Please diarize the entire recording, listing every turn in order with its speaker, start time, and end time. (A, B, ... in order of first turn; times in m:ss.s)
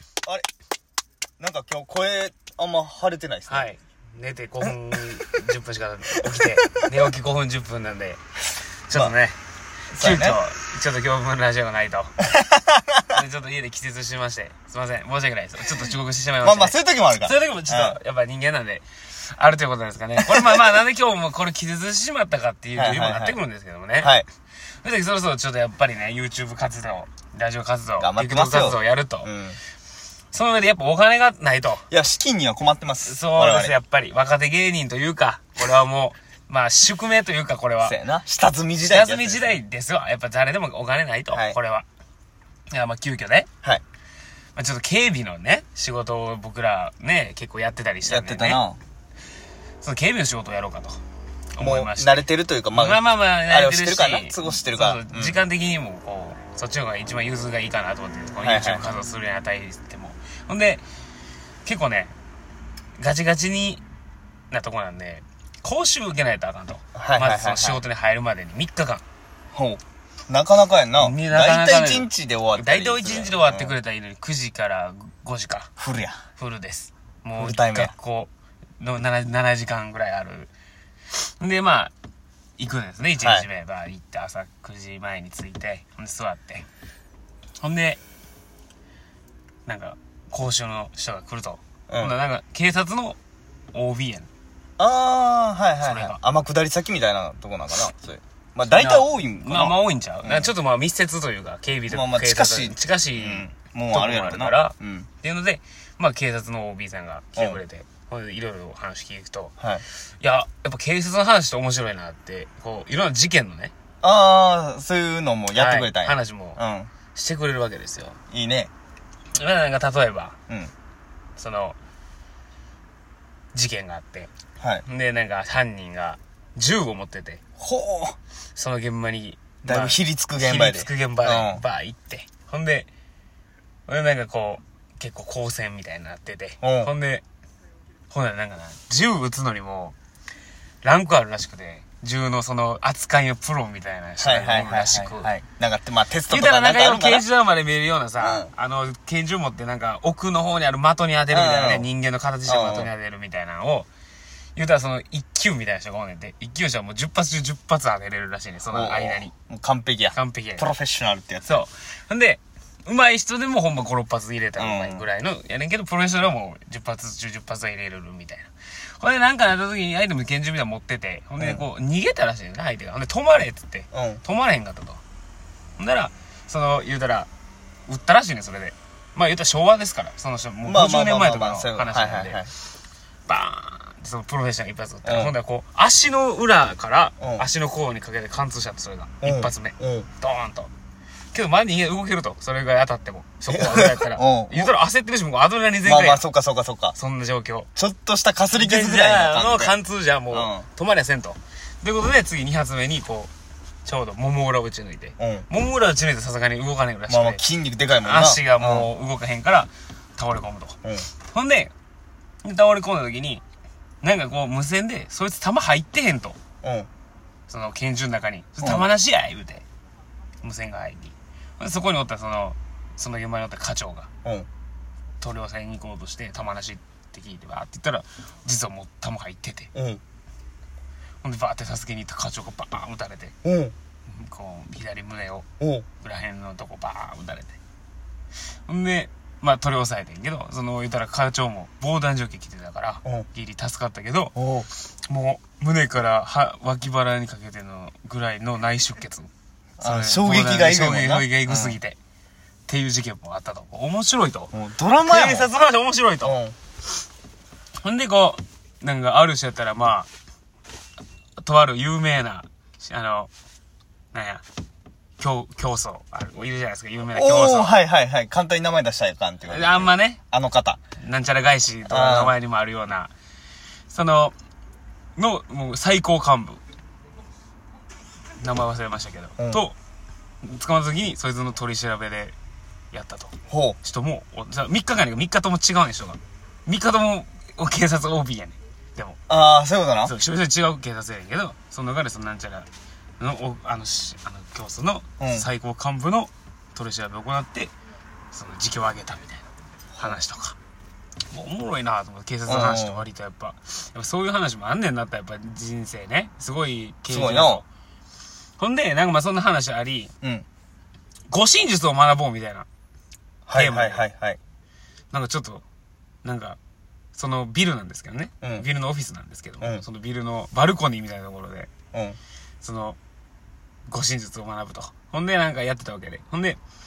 0:01.4-0:03.7 A
0:03.5-0:08.2 B
0:06.3-0:06.8 A
0:08.9-0:09.4 B
0:09.9-0:10.4 A
0:10.0-0:12.1 B
0:12.2-0:13.1 A
0:13.1-0:24.1 B
0:16.4-0:18.0 A
0:20.2-0:20.6 A
0:22.8-0:23.4 A
0:24.0-0:24.2 A
0:24.8-0:29.3 B
0:28.0-0:29.6 A
0:30.3-0:31.8 B
0:31.9-0:33.7 A
0:33.0-0:38.0 B
0:37.8-0:39.6 A
0:38.9-0:41.8 B
0:41.3-0:41.6 A
0:42.7-0:43.5 B
0:44.6-0:48.6 B
0:48.0-0:48.8 A
0:49.8-0:51.0 B
0:51.5-1:00.8 B
0:51.6-0:55.4 A
0:58.4-0:58.9 A
1:01.6-1:02.1 B
1:03.0-1:03.8 B
1:04.5-1:09.0 B
1:06.9-1:07.8 A
1:09.5-1:13.8 A
1:11.0-1:15.7 B
1:15.8-1:16.2 A
1:16.4-1:20.5 B
1:17.4-1:17.9 A
1:21.1-1:21.9 B
1:22.6-1:26.6 B
1:23.2-1:23.5 A
1:27.6-1:28.0 B
1:29.6-1:33.2 B
1:31.9-1:32.1 A
1:33.7-1:34.3 B
1:34.8-1:40.5 A
1:35.8-1:36.2 B
1:38.7-1:49.5 B
1:41.9-1:45.1 A
1:50.2-1:53.7 B
1:54.0-1:56.9 A
1:55.5-1:56.6 B
1:57.1-1:58.2 B
1:58.3-1:58.7 A
1:59.3-2:00.3 B
2:01.4-2:01.8 B
2:03.5-2:04.3 B
2:04.8-2:07.4 B
2:07.6-2:08.2 A
2:08.6-2:12.9 B
2:09.6-2:11.6 A
2:13.9-2:17.2 B
2:16.6-2:16.9 A
2:18.1-2:19.9 B
2:20.8-2:25.3 B
2:24.2-2:27.2 A
2:26.3-2:33.9 B
2:28.2-2:28.5 A
2:31.3-2:31.9 A
2:32.4-2:32.9 A
2:34.6-2:39.3 B
2:38.7-2:41.6 A
2:40.1-2:40.6 B
2:41.4-2:55.0 B
2:44.6-2:45.0 A
2:51.4-2:51.6 A
2:53.9-2:54.2 A
2:55.8-2:57.3 B
2:57.9-3:02.4 B
3:00.6-3:02.5 A
3:03.3-3:10.7 B
3:05.0-3:05.3 A
3:07.2-3:07.5 A
3:09.2-3:10.1 A
3:11.3-3:16.2 B
3:13.5-3:14.7 A
3:15.8-3:16.9 A
3:17.0-3:17.7 B
3:17.8-3:19.7 A
3:18.5-3:23.3 B
3:20.3-3:20.6 A
3:23.8-3:27.4 B
3:25.2-3:25.5 A
3:27.1-3:28.9 A
3:28.0-3:30.8 B
3:31.3-3:31.7 B
3:32.4-3:33.4 B
3:34.0-3:36.4 B
3:36.6-3:36.9 A
3:37.5-3:39.6 B
3:40.4-3:44.1 B
3:45.2-3:49.7 B
3:49.7-3:50.0 A
3:51.2-3:53.3 B
3:53.4-3:53.7 A
3:54.1-3:55.4 B
3:55.6-3:55.8 A
3:56.0-3:57.6 B
3:58.7-4:09.3 B
4:04.3-4:04.7 A
4:09.8-4:11.8 A
4:09.8-4:12.0 B
4:12.7-4:14.5 B
4:14.5-4:15.5 A
4:15.0-4:16.4 B
4:16.2-4:16.5 A
4:17.8-4:20.1 B
4:21.4-4:23.3 B
4:24.1-4:24.4 B
4:25.2-4:27.8 B
4:27.1-4:30.8 A
4:29.5-4:30.2 B
4:31.0-4:33.1 B
4:31.9-4:32.3 A
4:33.9-4:34.3 B
4:35.2-4:36.6 B
4:38.4-4:39.8 B
4:39.4-4:39.6 A
4:40.4-4:42.3 B
4:42.9-4:49.2 B
4:43.5-4:43.8 A
4:49.3-4:50.1 A
4:50.0-4:52.7 B
4:53.2-4:57.7 B
4:55.2-4:55.5 A
4:58.3-4:59.4 B
4:59.9-5:00.2 A
5:00.0-5:00.6 B
5:01.3-5:07.6 B
5:02.5-5:03.0 A
5:07.1-5:07.6 A
5:08.6-5:10.1 B
5:11.3-5:12.6 B
5:13.5-5:14.4 A
5:13.5-5:14.0 B
5:15.1-5:15.6 B
5:16.2-5:16.6 B
5:17.1-5:21.7 B
5:21.9-5:22.2 A
5:22.6-5:23.0 B
5:23.9-5:26.6 B